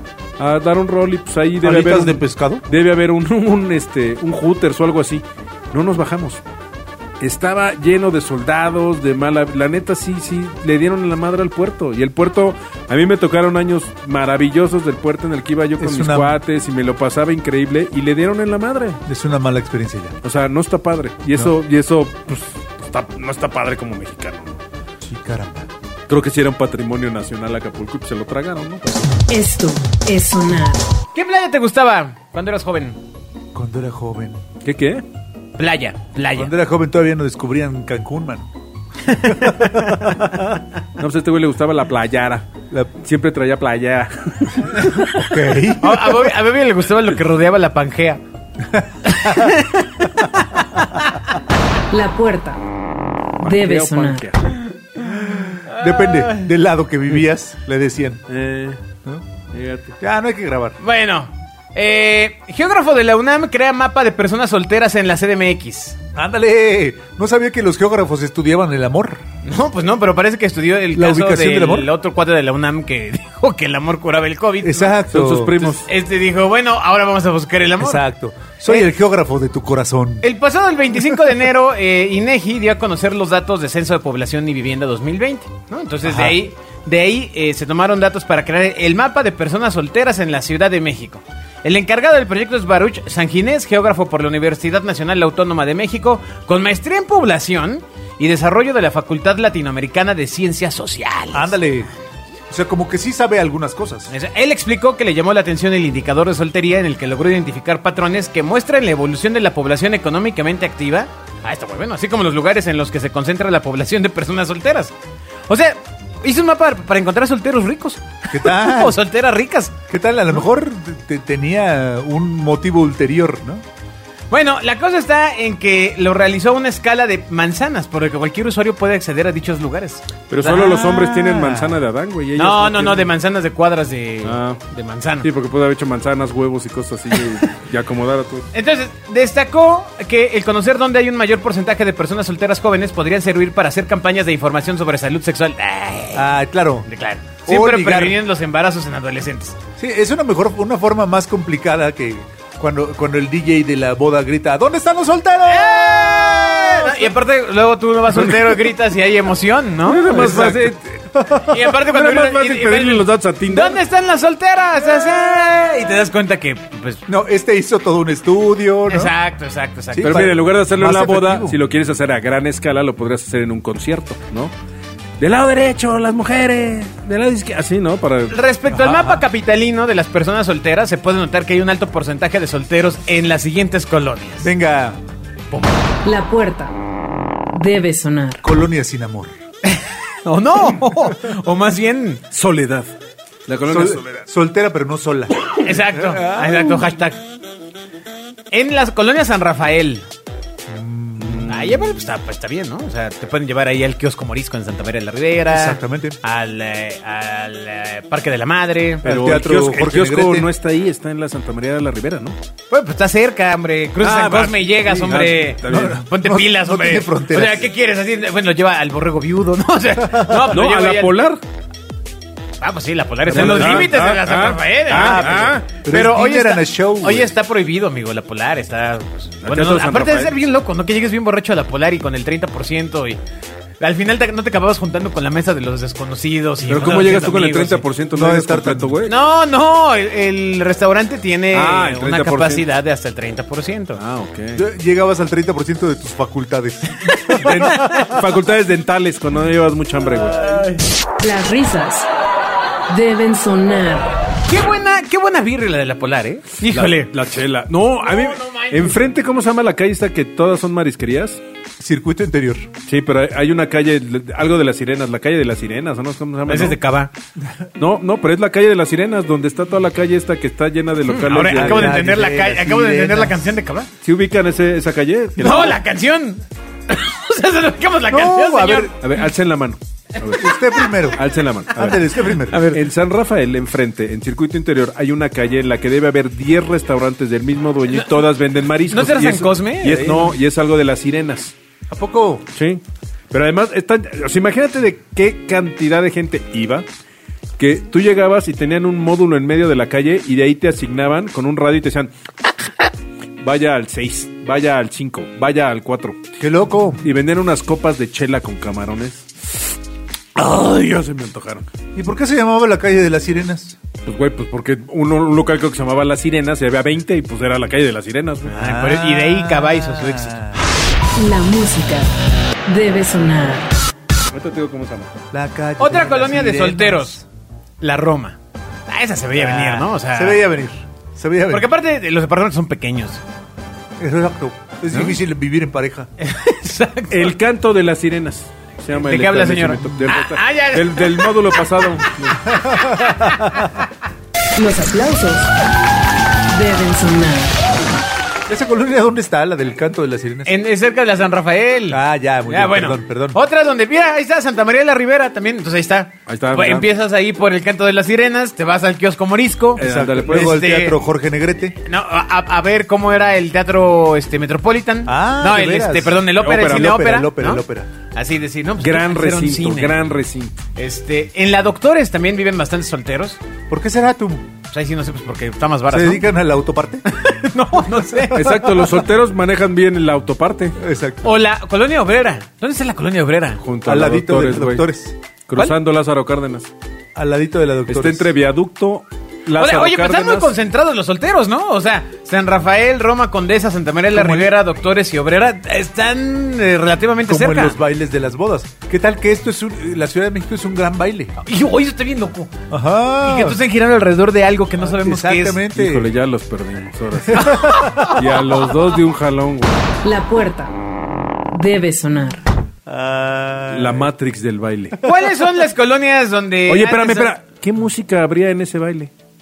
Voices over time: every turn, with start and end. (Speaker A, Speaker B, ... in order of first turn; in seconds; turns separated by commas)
Speaker A: 0.4-6.4, Speaker B: 1.6-2.6, Speaker A: 7.2-19.0, Speaker B: 15.8-16.4, Speaker B: 19.1-20.2, Speaker A: 20.2-24.6, Speaker B: 25.0-25.7, Speaker A: 26.1-29.2, Speaker C: 29.3-30.9, Speaker D: 31.1-33.0, Speaker B: 33.5-34.4, Speaker A: 34.6-35.0, Speaker D: 35.6-36.5, Speaker B: 36.3-38.5, Speaker D: 39.1-40.2, Speaker B: 39.1-40.6, Speaker A: 41.0-45.3, Speaker B: 45.1-46.2, Speaker D: 45.8-48.2, Speaker B: 48.7-49.5, Speaker D: 49.1-50.6, Speaker C: 51.9-52.6, Speaker C: 53.4-54.3, Speaker A: 53.4-54.6, Speaker B: 55.1-58.3, Speaker D: 55.7-56.4, Speaker A: 58.3-58.8, Speaker A: 59.5-60.0, Speaker B: 60.0-60.8, Speaker D: 60.8-66.0, Speaker B: 66.2-69.2, Speaker D: 69.4-75.0, Speaker B: 70.9-71.9, Speaker B: 74.6-75.6, Speaker A: 75.1-75.9, Speaker D: 75.6-78.0, Speaker B: 77.8-80.3, Speaker D: 80.2-101.5, Speaker B: 86.0-86.4, Speaker B: 101.3-101.9, Speaker B: 102.5-104.1, Speaker D: 104.1-114.9, Speaker D: 115.5-119.8, Speaker B: 118.3-119.0, Speaker B: 119.9-123.6, Speaker D: 124.3-130.7, Speaker A: 130.3-133.1, Speaker B: 130.4-131.8, Speaker D: 132.4-135.3, Speaker A: 134.2-134.6, Speaker A: 135.2-138.5, Speaker D: 138.5-146.3, Speaker B: 146.1-146.9, Speaker D: 146.9-149.6, Speaker B: 147.5-148.2, Speaker B: 149.8-157.1, Speaker D: 155.5-160.6, Speaker A: 159.9-161.0, Speaker B: 160.1-161.7, Speaker D: 161.4-167.0, Speaker A: 161.8-163.8, Speaker B: 167.1-169.1, Speaker D: 168.9-170.3, Speaker B: 169.9-171.6, Speaker A: 170.0-174.5, Speaker A: 175.2-178.4, Speaker D: 178.3-184.5, Speaker B: 178.7-179.2, Speaker B: 184.4-185.0, Speaker D: 185.5-185.9, Speaker C: 186.0-186.7, Speaker C: 187.5-188.4, Speaker B: 188.4-189.3, Speaker D: 189.7-192.2, Speaker A: 192.3-192.9, Speaker A: 193.5-194.1, Speaker B: 193.7-196.9, Speaker D: 195.6-197.2, Speaker D: 198.5-200.1, Speaker B: 200.7-201.5, Speaker A: 201.2-202.0, Speaker D: 201.5-209.1, Speaker B: 205.5-206.2, Speaker B: 209.0-210.5, Speaker A: 209.0-212.4, Speaker D: 212.7-221.2, Speaker A: 214.0-216.0, Speaker B: 215.6-217.7, Speaker B: 220.1-220.5, Speaker A: 220.5-221.4, Speaker D: 222.6-233.2, Speaker B: 223.3-224.1, Speaker A: 223.3-225.6, Speaker B: 224.9-227.3, Speaker A: 229.5-230.3, Speaker D: 233.8-237.8, Speaker A: 236.6-239.1, Speaker B: 238.1-239.0, Speaker D: 239.1-244.0, Speaker A: 241.5-242.7, Speaker A: 244.0-244.6, Speaker B: 244.6-247.8, Speaker A: 247.3-250.6, Speaker D: 247.7-248.1, Speaker C: 251.2-252.1, Speaker C: 252.9-254.1, Speaker D: 254.5-257.1, Speaker A: 256.7-261.4, Speaker D: 258.0-259.1, Speaker B: 261.8-262.7, Speaker A: 262.8-266.8, Speaker D: 266.5-267.1, Speaker A: 267.8-272.0, Speaker D: 271.1-273.9, Speaker B: 271.4-273.5, Speaker A: 274.0-275.8, Speaker D: 275.4-278.9, Speaker B: 278.1-278.9, Speaker A: 279.0-280.5, Speaker B: 280.4-281.2, Speaker A: 281.1-282.0, Speaker B: 281.7-282.7, Speaker D: 282.5-282.8, Speaker A: 282.6-291.5, Speaker D: 287.9-288.2, Speaker D: 288.9-290.3, Speaker B: 291.9-292.5, Speaker A: 292.6-296.9, Speaker A: 297.6-302.7, Speaker A: 303.4-306.2, Speaker B: 306.4-307.0, Speaker A: 307.0-309.7, Speaker A: 310.4-311.7, Speaker B: 311.9-313.8, Speaker A: 314.1-318.6, Speaker D: 318.5-320.5, Speaker B: 318.5-320.6, Speaker C: 321.1-322.1, Speaker C: 322.7-323.7, Speaker A: 324.3-325.2, Speaker B: 325.3-327.1, Speaker D: 325.8-327.2, Speaker D: 327.8-328.4, Speaker D: 328.9-330.4, Speaker B: 329.4-331.7, Speaker D: 331.5-333.2, Speaker B: 334.0-336.1, Speaker D: 336.2-337.4, Speaker A: 337.1-342.6, Speaker D: 338.9-341.6, Speaker B: 342.5-343.8, Speaker D: 343.0-343.4, Speaker C: 344.6-345.5, Speaker C: 346.5-347.6, Speaker B: 348.5-350.5, Speaker D: 350.5-361.0, Speaker B: 351.9-353.4, Speaker A: 356.3-356.9, Speaker A: 359.8-360.6, Speaker B: 359.8-361.8, Speaker D: 361.9-370.1, Speaker B: 365.1-367.9, Speaker A: 366.4-366.9, Speaker A: 368.8-370.6, Speaker D: 370.8-373.4, Speaker B: 373.7-374.5, Speaker D: 374.7-376.3, Speaker B: 375.9-377.1, Speaker D: 377.1-378.6, Speaker B: 378.1-378.8, Speaker A: 378.3-380.8, Speaker B: 380.8-381.3, Speaker D: 381.2-383.6, Speaker A: 383.6-384.8, Speaker B: 383.9-385.8, Speaker A: 385.5-386.7, Speaker B: 387.1-388.3, Speaker A: 387.9-390.5, Speaker D: 389.6-397.8, Speaker B: 394.1-394.5, Speaker B: 397.3-401.4, Speaker D: 401.4-402.6, Speaker B: 402.7-403.6, Speaker D: 403.2-405.6, Speaker B: 404.9-406.1, Speaker A: 405.7-409.9, Speaker B: 407.2-408.2, Speaker D: 407.4-408.7, Speaker C: 410.0-410.7, Speaker C: 411.5-412.4, Speaker B: 412.9-414.1, Speaker A: 413.7-415.0, Speaker D: 415.0-417.3, Speaker A: 416.7-419.1